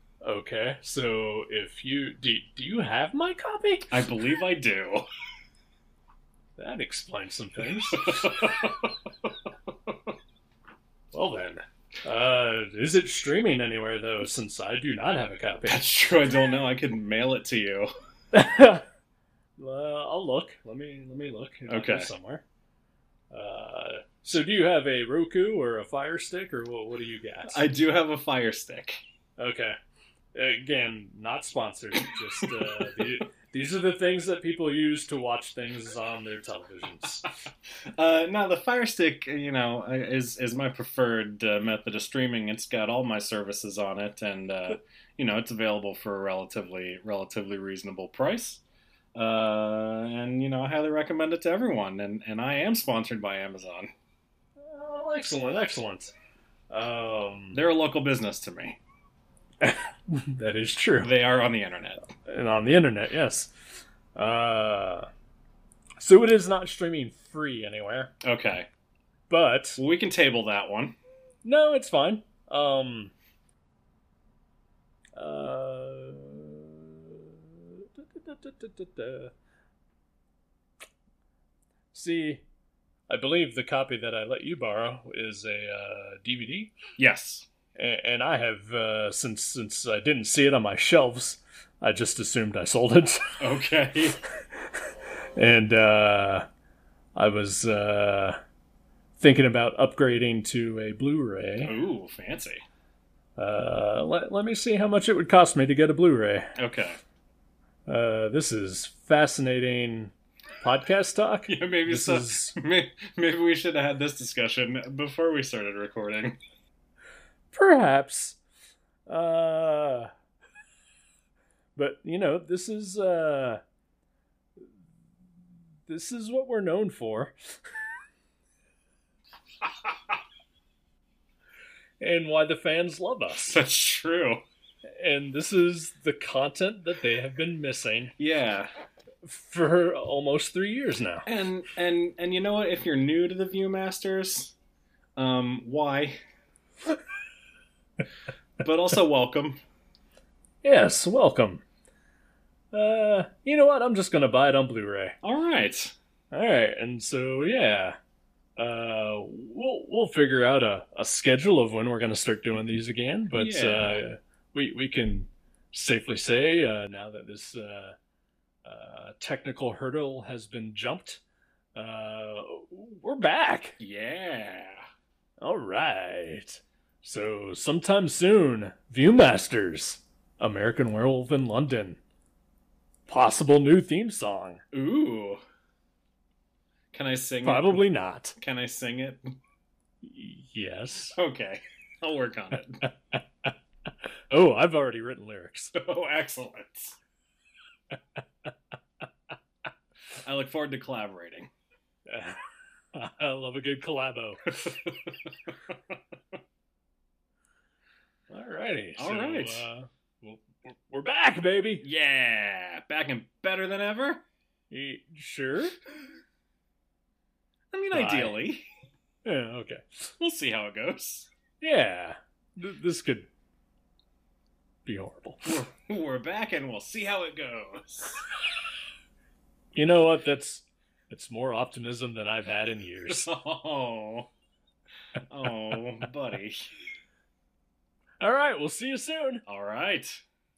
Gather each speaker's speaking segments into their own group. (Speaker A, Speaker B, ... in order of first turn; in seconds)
Speaker A: 0.2-4.0, 6.6-8.6, 11.1-15.9, 18.3-18.8, 19.6-22.4, 23.3-27.7, 29.4-29.8, 30.3-37.3, 54.7-56.1, 56.7-57.6, 59.6-61.1, 62.2-63.5, 64.2-65.1, 66.0-68.1, 69.3-69.8, 71.4-73.1, 75.2-79.3, 81.9-82.4, 83.1-86.7, 87.8-93.4, 95.4-96.5, 97.2-98.4, 99.2-101.8, 103.4-106.5, 107.9-112.5, 117.5-118.4, 119.1-120.1, 121.8-123.6, 125.9-127.3, 132.0-133.6, 135.0-138.1, 139.2-141.3, 150.6-151.6, 152.7-155.2, 156.3-157.9, 158.6-167.9, 168.6-171.2, 171.7-173.8, 175.4-182.0, 183.1-184.6, 187.4-188.3, 190.0-191.2, 192.8-193.5, 194.3-195.7, 202.1-202.4, 202.9-204.5, 208.3-211.8, 214.7-215.8, 217.9-218.4, 219.2-220.1, 221.6-223.3, 224.8-225.6, 229.7-233.3, 238.2-239.4
Speaker B: 3.9-5.1, 8.0-8.9, 15.7-17.9, 21.7-22.1, 27.5-29.0, 32.6-33.1, 37.9-48.6, 49.1-53.9, 57.5-58.8, 61.0-62.0, 68.2-68.7, 69.8-71.0, 87.0-87.5, 93.4-94.2, 101.6-102.6, 106.6-107.0, 111.5-116.4, 133.3-134.4, 138.2-138.7, 141.3-144.6, 145.2-146.2, 148.6-149.6, 155.2-155.9, 163.3-164.0, 173.8-174.8, 184.7-185.4, 186.9-187.8, 188.4-189.2, 191.1-192.8, 195.8-197.0, 200.2-201.5, 204.5-205.2, 208.9-209.7, 211.8-214.2, 217.7-218.7, 220.2-221.3, 225.4-228.2, 233.1-234.3, 235.3-236.6, 239.4-240.2